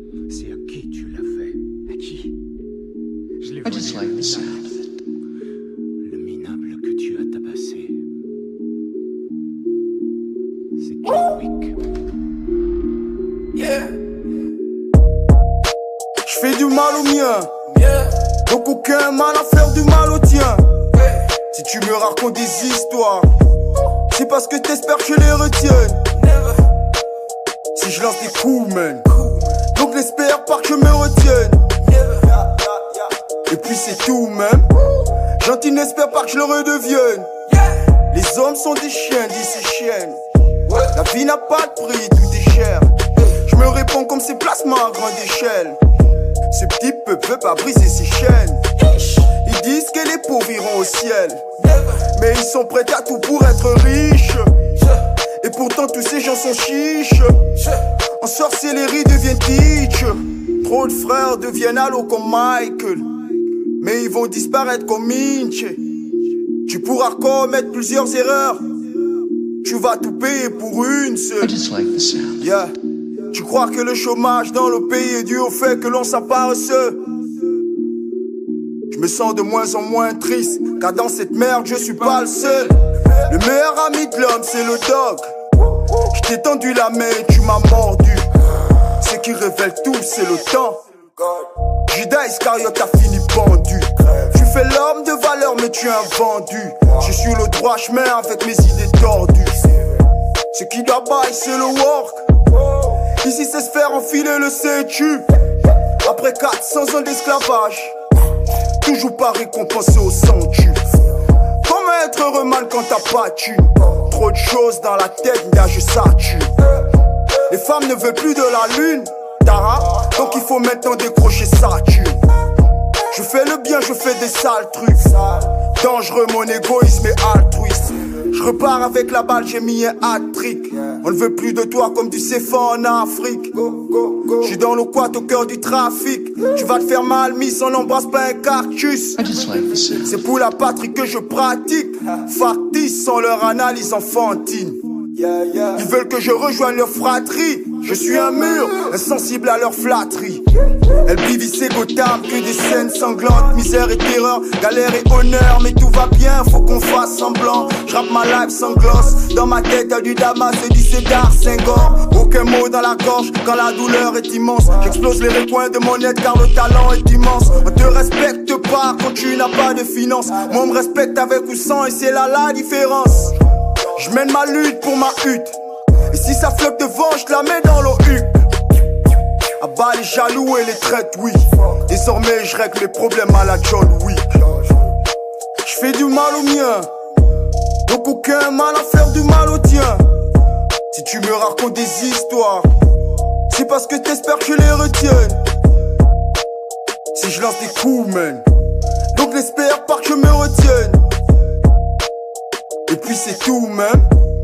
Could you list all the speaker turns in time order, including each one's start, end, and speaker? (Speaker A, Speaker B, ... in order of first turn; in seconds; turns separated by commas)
Speaker A: 0.3-2.3, Speaker A: 3.4-4.6, Speaker B: 3.6-4.8, Speaker A: 6.0-8.0, Speaker A: 10.8-11.8, Speaker C: 16.2-17.8, Speaker C: 18.4-20.7, Speaker C: 21.5-23.3, Speaker C: 24.1-26.1, Speaker C: 27.7-37.3, Speaker C: 38.1-40.2, Speaker C: 40.7-45.8, Speaker C: 46.5-54.9, Speaker C: 55.4-63.1, Speaker C: 63.8-65.8, Speaker C: 66.6-68.6, Speaker C: 69.6-71.7, Speaker B: 71.6-72.3, Speaker C: 72.3-72.7, Speaker C: 73.3-77.0, Speaker C: 78.9-85.3, Speaker C: 85.8-88.3, Speaker C: 88.9-99.7, Speaker C: 100.5-102.2, Speaker C: 103.2-105.3, Speaker C: 106.0-107.9, Speaker C: 108.8-110.8, Speaker C: 111.6-116.5, Speaker C: 117.5-122.2, Speaker C: 123.1-139.4, Speaker B: 139.2-140.0, Speaker C: 139.9-144.8, Speaker C: 145.5-150.4, Speaker C: 151.0-175.6, Speaker C: 176.1-178.5, Speaker C: 179.6-184.7, Speaker C: 185.6-186.9, Speaker C: 187.8-190.1, Speaker C: 190.9-192.7, Speaker C: 193.5-195.4, Speaker C: 197.1-198.4, Speaker C: 199.1-201.0, Speaker C: 202.9-204.1